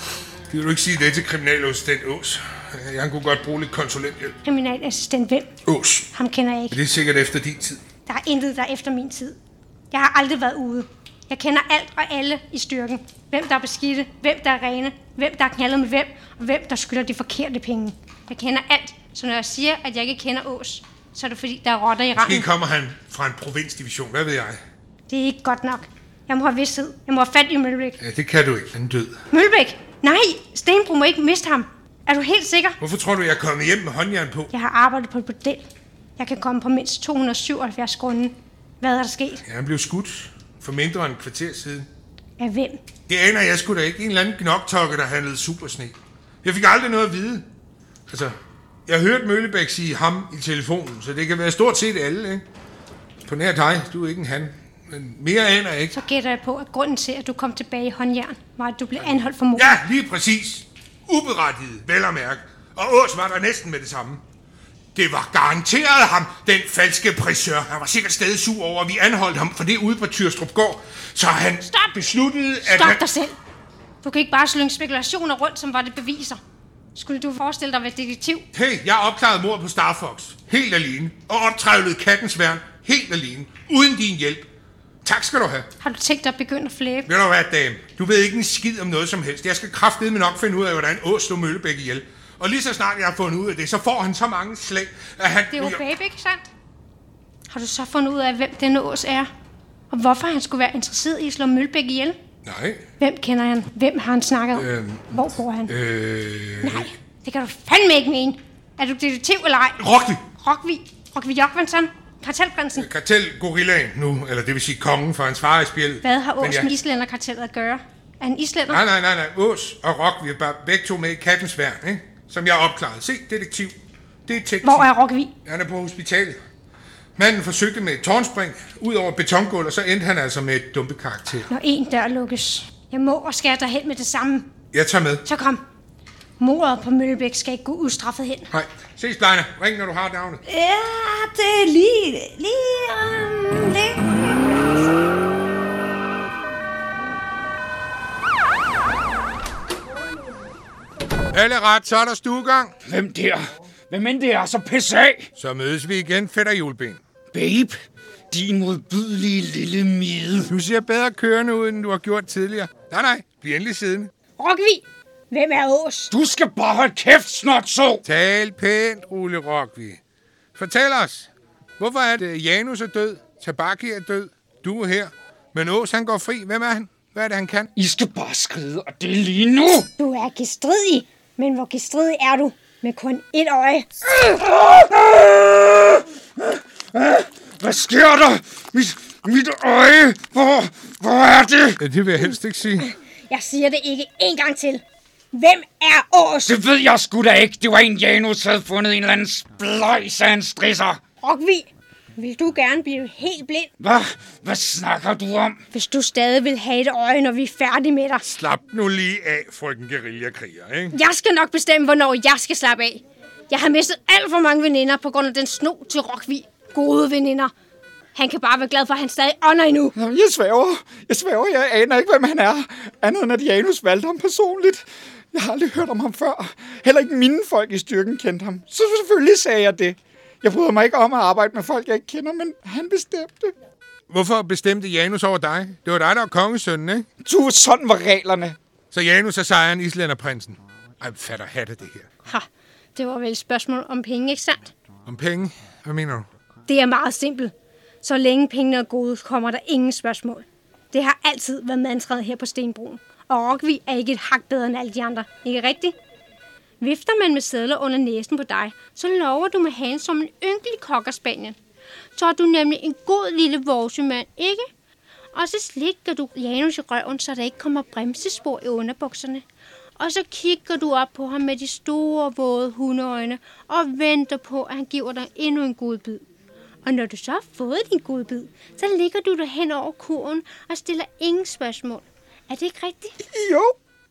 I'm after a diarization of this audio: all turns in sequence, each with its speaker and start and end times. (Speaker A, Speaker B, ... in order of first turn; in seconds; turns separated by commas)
Speaker A: 0.5-4.4, Speaker B: 4.4-5.5, Speaker A: 5.7-6.1, Speaker B: 6.1-6.8, Speaker A: 6.7-7.8, Speaker B: 8.1-9.4, Speaker B: 9.9-22.5, Speaker A: 22.1-24.6, Speaker B: 25.1-28.0, Speaker A: 28.0-29.2, Speaker B: 29.3-32.8, Speaker A: 32.8-34.5, Speaker B: 34.5-35.7, Speaker B: 36.2-39.4, Speaker A: 39.5-41.9, Speaker B: 42.4-42.8, Speaker A: 43.1-47.5, Speaker A: 48.1-48.3, Speaker A: 48.9-52.4, Speaker A: 53.2-55.9, Speaker B: 55.9-59.8, Speaker A: 59.5-64.2, Speaker A: 64.9-73.0, Speaker B: 72.6-73.3, Speaker B: 74.0-76.4, Speaker B: 76.9-78.5, Speaker A: 78.5-84.5, Speaker A: 85.0-85.7, Speaker B: 85.8-87.1, Speaker A: 87.1-95.8, Speaker B: 95.5-96.4, Speaker B: 97.5-99.3, Speaker B: 99.9-102.2, Speaker A: 102.4-102.8, Speaker B: 103.0-105.7, Speaker A: 104.5-105.1, Speaker A: 105.7-106.9, Speaker B: 106.6-109.8, Speaker A: 109.8-110.2, Speaker B: 110.4-112.9, Speaker A: 112.8-116.7, Speaker B: 116.0-118.8, Speaker A: 118.7-123.7, Speaker A: 124.2-124.9, Speaker B: 124.6-125.3, Speaker A: 125.4-126.4, Speaker A: 127.2-131.5, Speaker B: 131.5-134.5, Speaker A: 134.7-135.2, Speaker B: 135.2-135.6, Speaker B: 136.4-138.5, Speaker A: 138.5-140.4, Speaker C: 140.4-144.8, Speaker A: 151.3-152.7, Speaker D: 152.8-155.3, Speaker A: 155.4-157.0, Speaker D: 157.3-160.5, Speaker A: 160.5-164.1, Speaker B: 164.4-166.1, Speaker D: 166.1-168.0, Speaker A: 168.0-170.0, Speaker A: 170.5-177.7, Speaker D: 177.8-179.9, Speaker B: 180.0-183.9, Speaker D: 184.0-191.8, Speaker A: 191.8-192.9, Speaker B: 193.3-196.5, Speaker D: 196.4-201.0, Speaker B: 201.2-203.7, Speaker D: 203.8-205.6, Speaker B: 205.7-208.2, Speaker A: 208.2-210.9, Speaker B: 210.9-217.5, Speaker B: 218.1-219.9, Speaker E: 219.9-233.5, Speaker A: 234.1-237.1, Speaker E: 237.2-238.6, Speaker A: 238.9-242.1, Speaker B: 242.3-244.7, Speaker A: 245.1-246.3, Speaker B: 246.7-255.9, Speaker B: 256.8-261.6, Speaker B: 262.1-264.7, Speaker B: 265.3-269.4, Speaker B: 270.0-276.2, Speaker B: 276.8-283.2, Speaker E: 283.2-283.7